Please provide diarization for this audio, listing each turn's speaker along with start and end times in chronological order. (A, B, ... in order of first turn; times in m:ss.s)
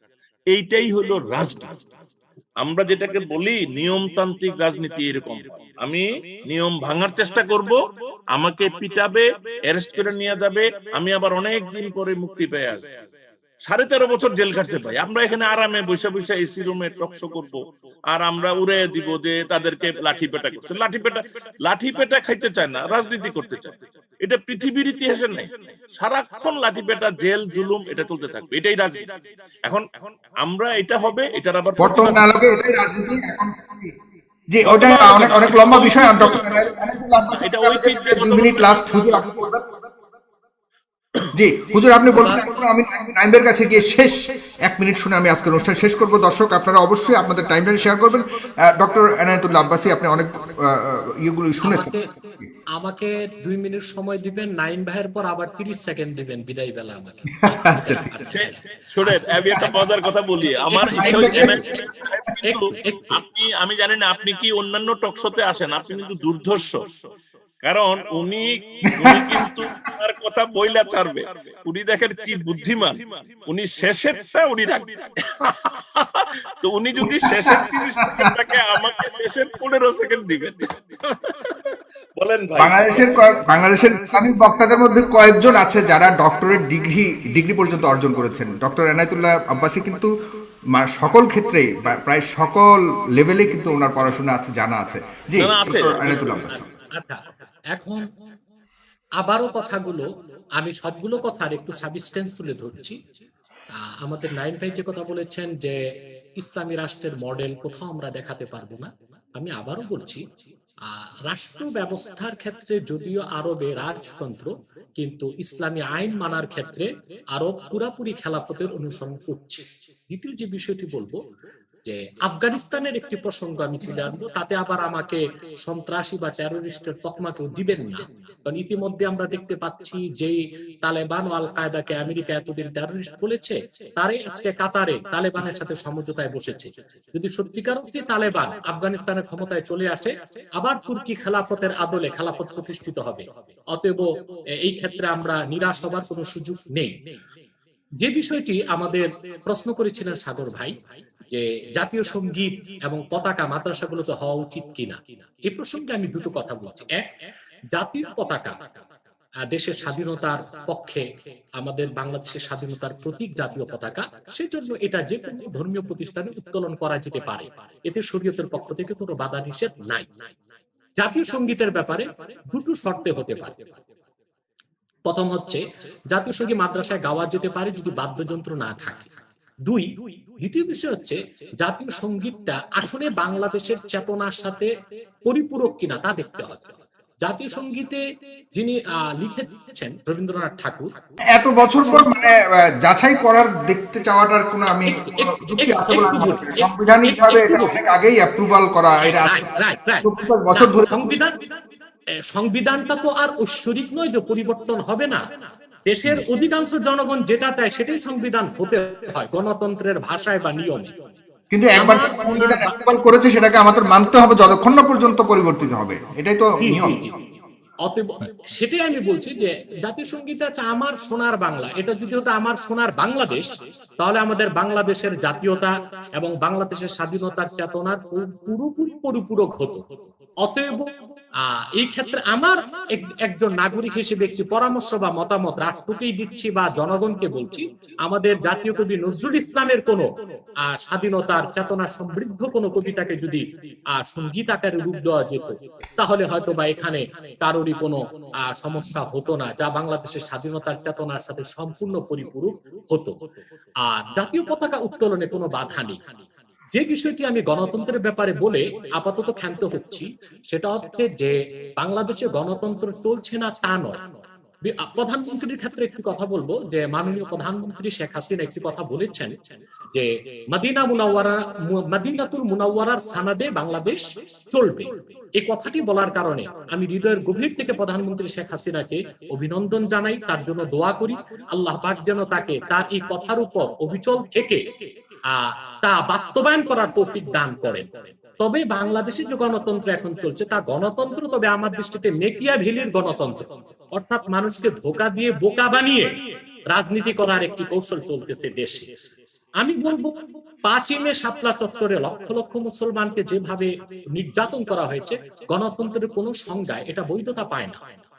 0:00.5-0:01.8 A
0:02.6-0:07.8 A
0:08.3-0:12.8 A
0:13.6-0:17.6 A
0:18.1-0:29.0 A
0:29.6-0:32.3 A
0:31.8-0:33.9 B
0:34.5-0:39.6 B
0:34.6-0:36.6 A
0:37.4-0:39.2 A
0:41.3-0:48.2 B
0:42.1-0:42.4 C
0:48.8-0:51.9 B
0:51.6-0:52.0 C
0:52.8-0:59.2 C
0:57.7-0:58.1 B
0:58.3-1:06.8 A
0:59.5-0:59.8 B
1:00.7-1:01.8 C
1:00.9-1:01.6 B
1:02.4-1:03.1 C
1:07.6-1:21.3 A
1:09.0-1:09.5 B
1:17.0-1:18.3 B
1:22.2-1:23.2 A
1:22.6-1:30.1 B
1:30.7-1:36.7 B
1:35.4-1:36.4 A
1:36.5-1:38.0 C
1:39.2-1:40.0 C
1:40.6-1:43.0 C
1:44.0-1:45.8 C
1:46.4-1:50.2 C
1:50.9-2:01.2 C
2:01.8-2:24.0 C
2:24.6-2:26.9 C
2:28.0-2:30.7 C
2:31.3-2:37.1 C
2:37.7-2:38.6 C
2:39.5-2:41.0 C
2:41.6-2:50.1 C
2:51.0-2:53.6 C
2:55.0-2:59.1 C
2:59.6-3:04.7 C
3:05.2-3:08.0 C
3:08.5-3:10.9 C
3:11.3-3:21.2 B
3:11.8-3:12.2 C
3:14.9-3:17.8 C
3:19.1-3:21.4 C
3:22.3-3:25.2 C
3:25.9-3:30.9 C
3:31.5-3:37.0 B
3:31.8-3:32.7 C
3:36.6-3:37.1 C
3:37.8-3:43.5 C
3:44.0-3:49.8 C
3:50.4-3:50.9 C
3:51.4-4:00.1 C
4:00.6-4:03.4 C
4:03.9-4:13.1 C
4:13.8-4:16.0 C
4:16.7-4:24.0 C
4:24.6-4:29.3 C
4:29.9-4:44.6 C
4:45.3-4:56.1 C
4:56.7-4:58.8 C
4:59.6-5:07.8 C